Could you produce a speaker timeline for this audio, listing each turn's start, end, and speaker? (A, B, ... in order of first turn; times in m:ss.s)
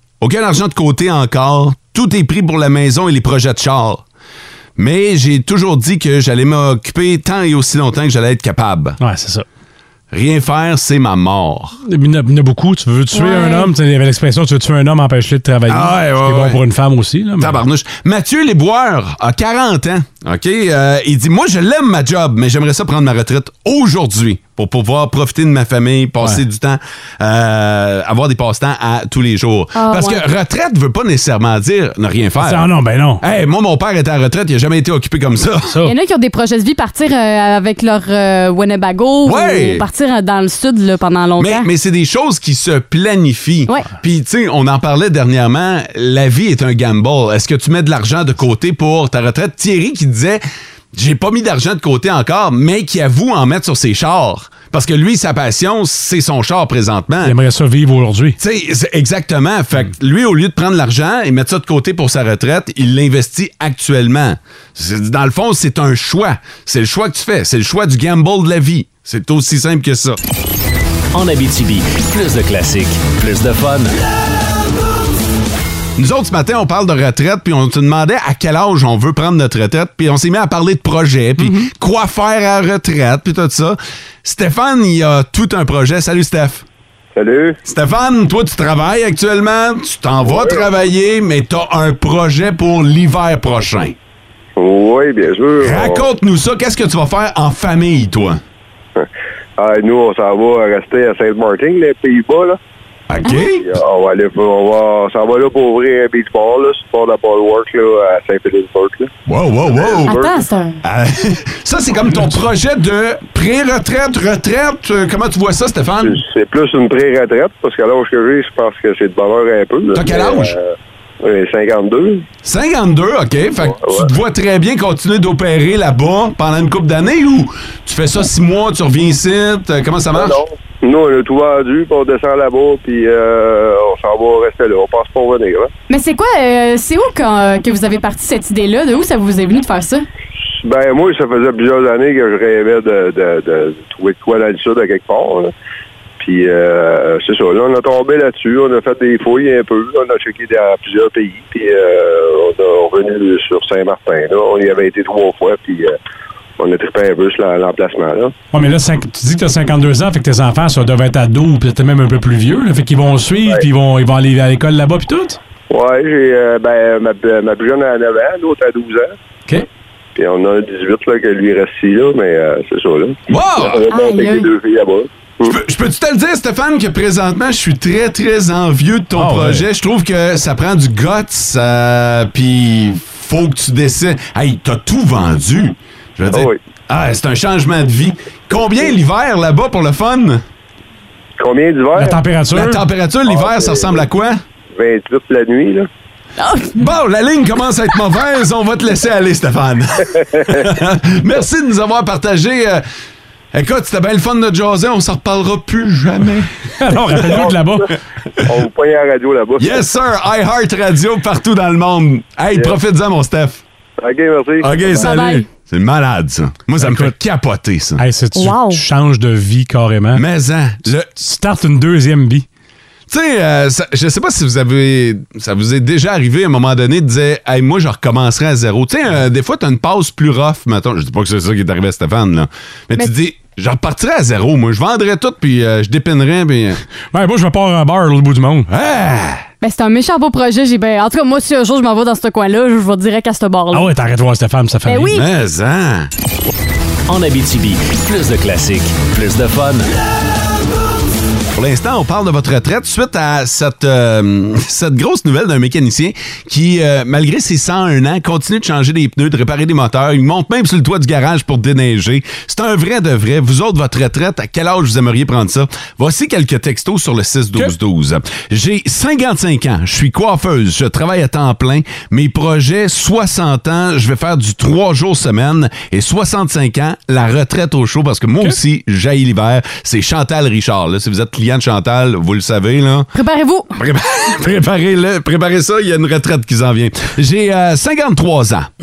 0:00.2-0:04.0 A
0:04.8-0:09.0 A
0:09.0-0:09.4 B
0:10.1-0:11.8 A
0:11.8-0:17.6 B
0:13.1-0:13.7 C
0:15.7-0:16.6 A
0:17.4-0:35.8 A
0:29.7-0:30.2 C
0:32.4-0:33.2 B
0:35.7-0:36.0 B
0:35.8-0:41.7 C
0:39.2-0:39.8 A
0:41.4-0:50.4 A
0:50.9-0:57.4 A
0:57.2-0:58.4 B
0:58.4-1:10.2 A
1:11.1-1:13.9 D
1:16.0-1:26.6 A
1:21.4-1:21.7 B
1:27.1-1:27.6 E
1:27.6-1:34.0 A
1:30.2-1:30.6 E
1:34.6-1:36.1 E
1:35.6-1:38.4 A
1:39.6-1:42.6 E
1:43.1-1:43.7 A
1:43.6-1:49.1 E
1:49.2-1:50.2 A
1:49.7-1:50.4 E
1:50.1-1:50.8 C
1:50.8-1:56.2 A
1:56.0-2:02.2 E
1:59.9-2:00.5 A
2:02.4-2:10.4 A
2:03.6-2:04.1 E
2:10.1-2:15.7 E
2:15.9-2:20.0 C
2:20.6-2:25.5 E
2:26.2-2:35.9 E
2:36.6-2:38.3 E
2:38.5-2:45.4 B
2:45.7-2:49.2 E
2:50.2-2:55.6 E
2:53.3-2:53.8 A
2:53.9-2:54.5 C
2:55.4-3:10.4 A
2:59.2-2:59.6 B
3:06.3-3:06.6 E
3:11.4-3:12.2 E
3:12.0-3:12.8 B
3:12.5-3:14.4 A
3:13.3-3:14.1 E
3:14.7-3:15.9 E
3:16.4-3:16.8 C
3:16.8-3:22.8 A
3:20.2-3:20.6 E
3:23.5-3:26.5 A
3:26.8-3:27.9 B
3:27.2-3:27.9 E
3:28.4-3:29.8 E
3:29.6-3:33.6 A
3:32.5-3:32.8 E
3:34.0-3:35.1 E
3:34.6-3:38.0 A
3:35.0-3:35.5 C
3:36.8-3:37.1 B
3:38.0-3:40.2 B
3:38.3-3:38.8 C
3:40.1-3:41.1 A
3:41.2-3:42.4 B
3:43.1-3:56.8 A
3:57.1-3:58.7 B
3:58.7-3:59.4 A
3:59.6-4:03.9 C
4:03.7-4:05.2 B
4:04.8-4:05.2 C
4:05.1-4:06.1 A
4:07.1-4:09.9 D
4:11.5-4:43.1 A
4:43.1-4:43.7 C
4:43.8-4:48.7 A